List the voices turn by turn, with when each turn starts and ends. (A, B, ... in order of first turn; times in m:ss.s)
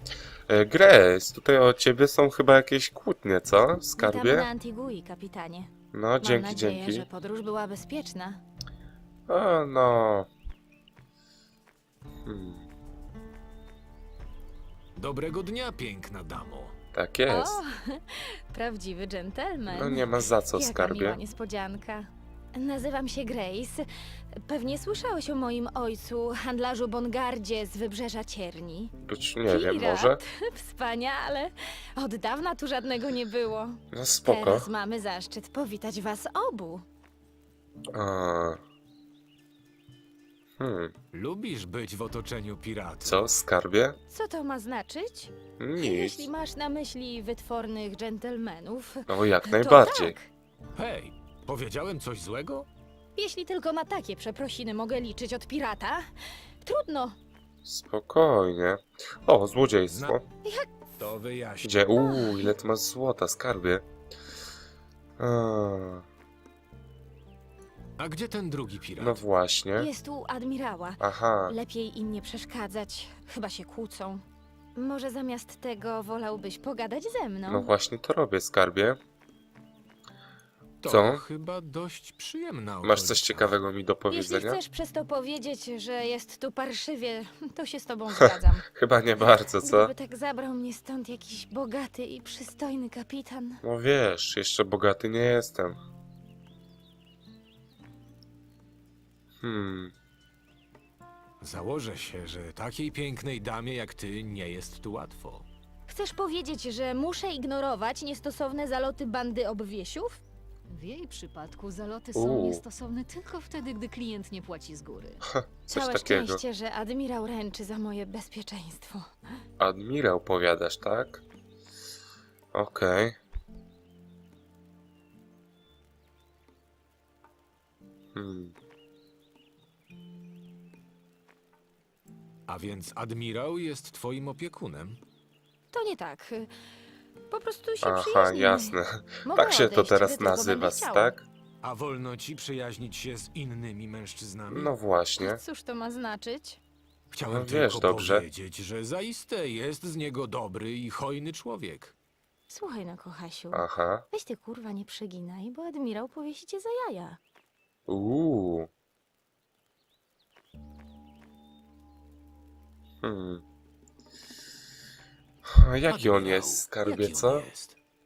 0:00.5-0:04.4 A
0:04.0-0:08.4 B
0:05.9-0:07.0 A
0:09.3-0:10.3 A
0:12.2-0:12.7 A
0:15.0-0:16.7 C
0:16.9-0:17.6 A
0:17.3-0:23.8 B
0:19.7-0:21.2 A
0:24.4-0:28.9 B
0:29.1-0:30.2 A
0:29.4-0:36.8 B
0:33.9-0:34.7 A
0:37.9-0:38.6 A
0:40.6-0:40.9 A
0:41.1-0:43.3 C
0:43.0-0:44.0 A
0:44.1-0:50.3 B
0:45.6-0:46.3 A
0:49.1-0:50.2 A
0:50.8-0:52.7 C
0:53.2-0:56.0 B
0:56.6-0:57.1 B
0:57.6-1:00.2 A
0:59.9-1:00.2 C
1:00.4-1:00.7 B
1:01.0-1:01.8 C
1:01.6-1:03.8 A
1:01.9-1:02.5 B
1:05.2-1:06.0 A
1:08.0-1:09.2 C
1:09.0-1:09.9 A
1:09.8-1:14.2 B
1:11.0-1:11.5 A
1:14.8-1:17.7 B
1:17.5-1:19.0 A
1:20.8-1:23.6 C
1:20.9-1:21.2 A
1:22.8-1:24.6 A
1:24.1-1:28.6 B
1:28.7-1:29.9 A
1:29.6-1:33.6 B
1:33.6-1:35.8 A
1:39.4-1:39.9 A
1:41.4-1:45.5 C
1:45.9-1:50.2 B
1:50.7-1:55.2 D
1:52.1-1:52.6 A
1:55.3-1:56.4 A
1:55.7-1:59.0 B
1:59.6-2:01.2 A
2:02.5-2:03.1 A
2:08.1-2:08.5 A
2:12.5-2:15.0 C
2:15.7-2:16.5 B
2:17.3-2:21.1 B
2:17.8-2:21.2 A
2:21.6-2:24.7 C
2:24.5-2:25.4 A
2:25.2-2:26.6 B
2:27.1-2:31.9 C
2:27.3-2:28.2 A
2:32.5-2:37.2 B
2:33.5-2:34.0 A
2:37.9-2:38.7 A
2:43.0-2:43.4 A
2:45.4-2:47.4 A
2:45.9-2:47.8 C